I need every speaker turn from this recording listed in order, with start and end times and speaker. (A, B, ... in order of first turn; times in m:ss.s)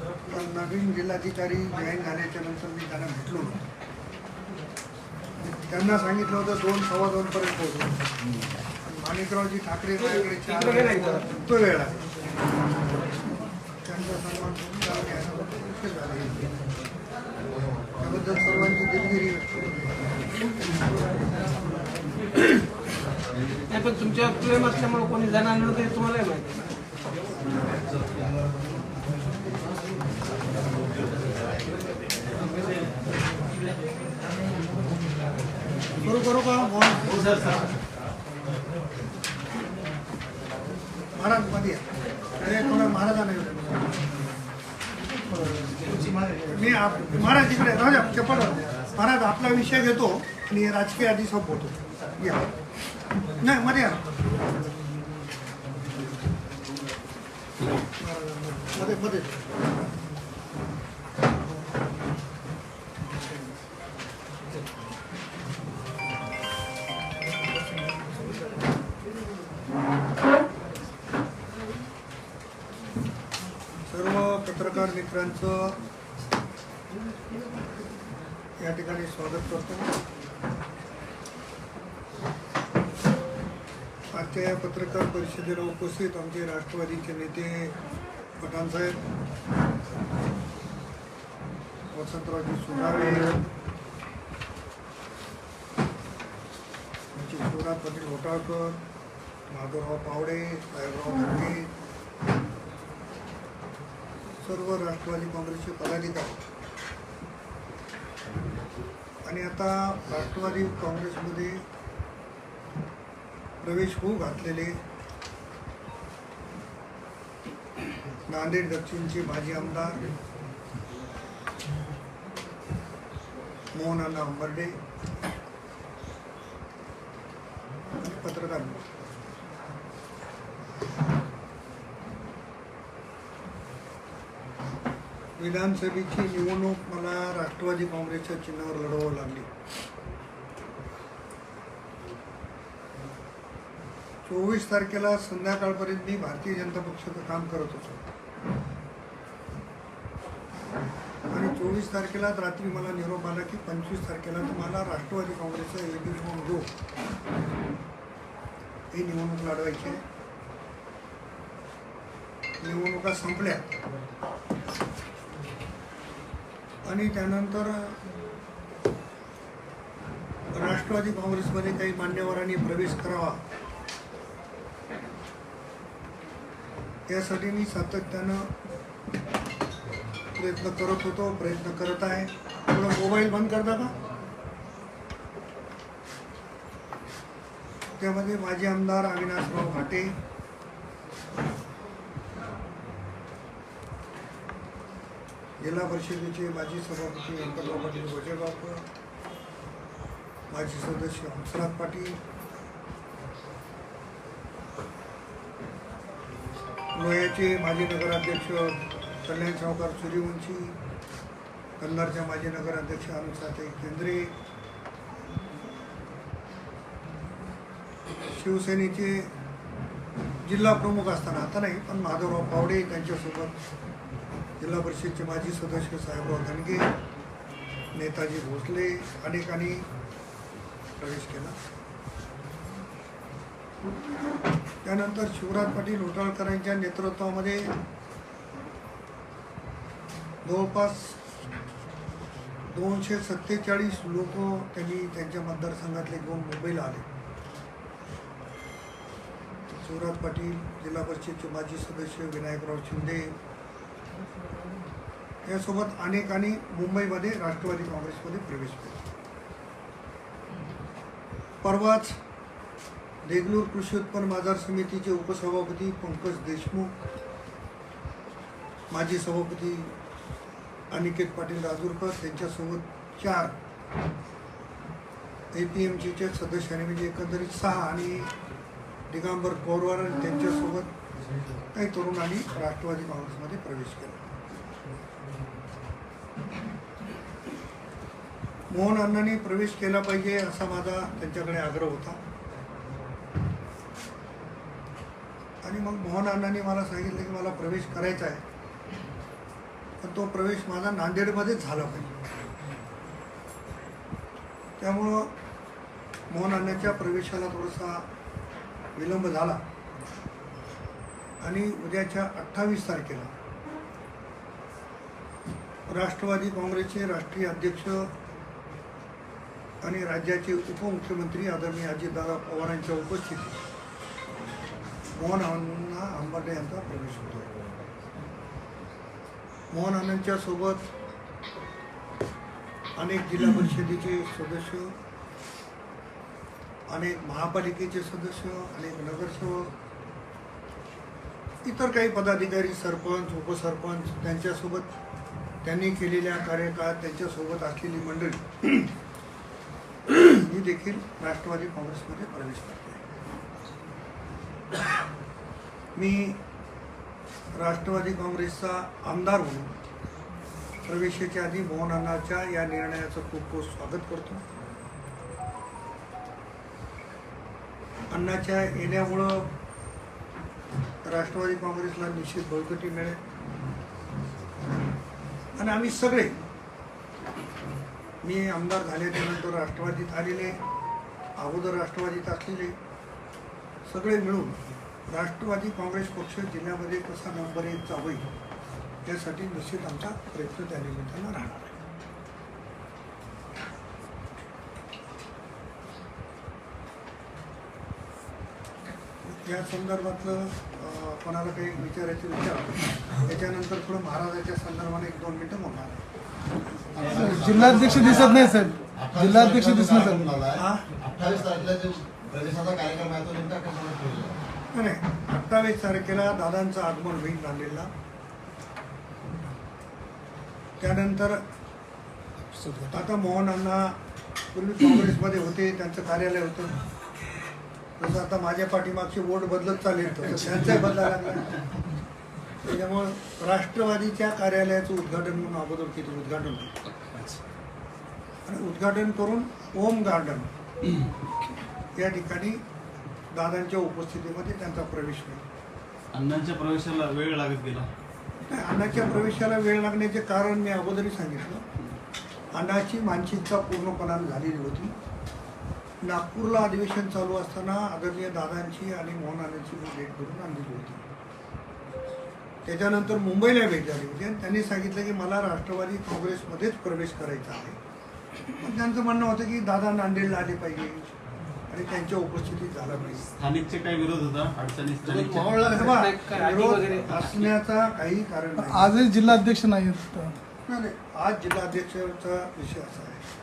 0:00.3-0:03.6 A
0:05.4-0:08.0 A
0:08.8-0:12.1 A
0:10.0-0:11.3 B
0:13.8-0:16.5 A
0:18.0-0:19.9 A
0:23.7-0:26.8 B
0:36.0-0:37.6 A
0:41.1-0:44.1 A
0:45.3-0:46.3 B
0:46.3-0:52.5 A
0:53.2-0:54.0 A
0:58.0-0:59.5 A
1:13.9-1:15.8 A
1:18.6-1:19.9 A
1:24.1-1:27.7 A
1:28.4-1:29.0 A
1:31.9-1:33.4 A
1:37.1-1:38.8 A
1:39.5-1:41.7 A
1:44.4-1:46.4 A
1:49.2-1:51.6 A
1:53.6-1:54.8 A
1:58.3-2:00.1 A
2:03.7-2:04.8 A
2:08.0-2:08.8 A
2:15.4-2:19.5 A
2:24.2-2:28.0 A
2:31.3-2:36.7 A
2:38.9-2:40.0 A
2:42.6-2:43.8 A
2:46.8-2:48.0 A
2:50.5-2:53.4 A
2:57.1-2:58.5 A
3:00.3-3:04.0 A
3:08.0-3:10.2 A
3:15.6-3:18.8 A
3:20.5-3:22.2 A
3:26.9-3:30.8 A
3:31.8-3:34.3 A
3:38.3-3:39.3 A
3:40.4-3:43.6 A
3:44.6-3:46.9 A
3:47.9-3:49.9 A
3:51.0-3:51.6 A
3:54.8-3:57.7 A
4:00.4-4:01.2 A
4:02.7-4:07.0 A
4:09.7-4:13.3 A
4:15.4-4:19.0 A
4:21.6-4:22.2 A
4:23.2-4:26.9 A
4:28.9-4:29.9 A
4:30.9-4:33.6 A
4:35.5-4:38.3 A
4:39.1-4:40.9 A
4:41.7-4:44.3 A
4:48.7-4:52.2 A
4:55.6-4:58.4 A
5:00.0-5:02.1 A
5:04.8-5:05.3 A
5:06.3-5:08.0 A
5:09.0-5:09.6 A
5:11.4-5:13.3 A
5:15.9-5:18.1 A
5:19.8-5:23.6 A
5:25.2-5:27.5 A
5:29.7-5:30.9 A
5:33.0-5:34.9 A
5:36.9-5:39.7 A
5:41.6-5:44.9 A
5:45.6-5:48.9 A
5:50.1-5:53.0 A
5:56.0-5:56.4 A
5:57.5-5:59.7 A
6:00.8-6:04.4 A
6:08.1-6:09.5 A
6:11.0-6:13.2 A
6:15.6-6:16.4 A
6:18.2-6:20.6 A
6:21.4-6:22.8 A
6:23.8-6:28.3 A
6:29.0-6:31.8 A
6:39.2-6:46.0 A
6:47.0-6:54.4 C
6:47.0-6:50.4 D
6:47.6-6:48.4 A
6:50.5-6:50.9 A
6:54.7-6:57.9 A
7:00.8-7:01.4 A
7:02.8-7:04.0 A
7:04.5-7:06.8 A
7:08.0-7:11.6 A
7:12.6-7:16.7 A
7:16.9-7:17.4 E
7:18.4-7:20.5 A
7:22.0-7:22.6 A
7:23.3-7:25.4 A
7:26.1-7:27.9 E
7:28.4-7:31.6 A
7:32.5-7:34.9 A
7:36.0-7:41.0 A
7:42.6-7:47.8 A
7:48.5-7:51.1 A
7:51.7-7:53.3 A
7:53.4-7:55.8 E
7:55.2-7:57.2 B
7:55.6-7:59.1 A
7:58.6-8:00.4 D
8:00.6-8:03.2 A